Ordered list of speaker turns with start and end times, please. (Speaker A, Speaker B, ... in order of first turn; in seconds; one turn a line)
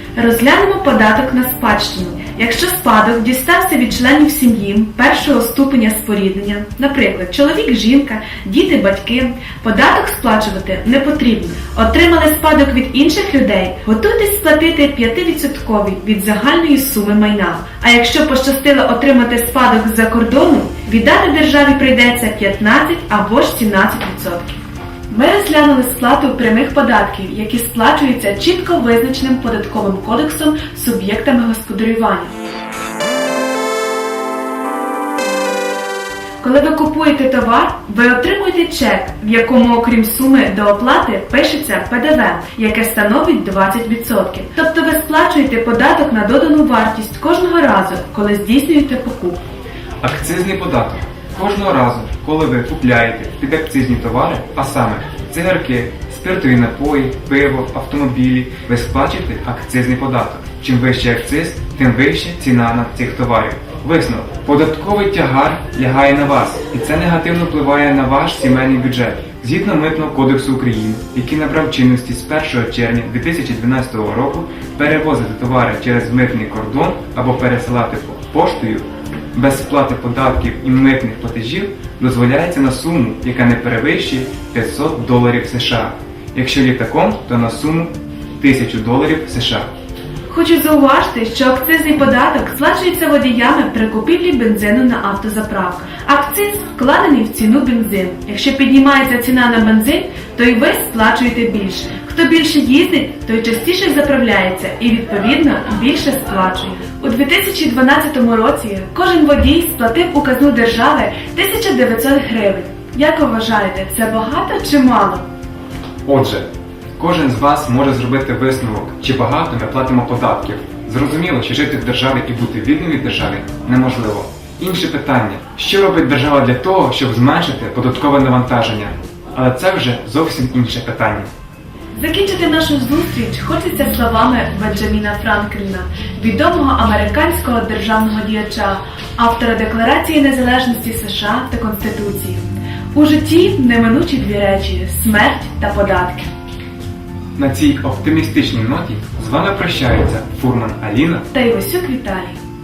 Speaker A: 0.2-32.3
Speaker A: 36.4-49.4
Speaker B: 50.0-89.7
Speaker A: 90.3-115.3
Speaker B: 116.1-131.3
Speaker A: 131.9-146.3
Speaker B: 147.4-151.3
Speaker A: 151.3-152.4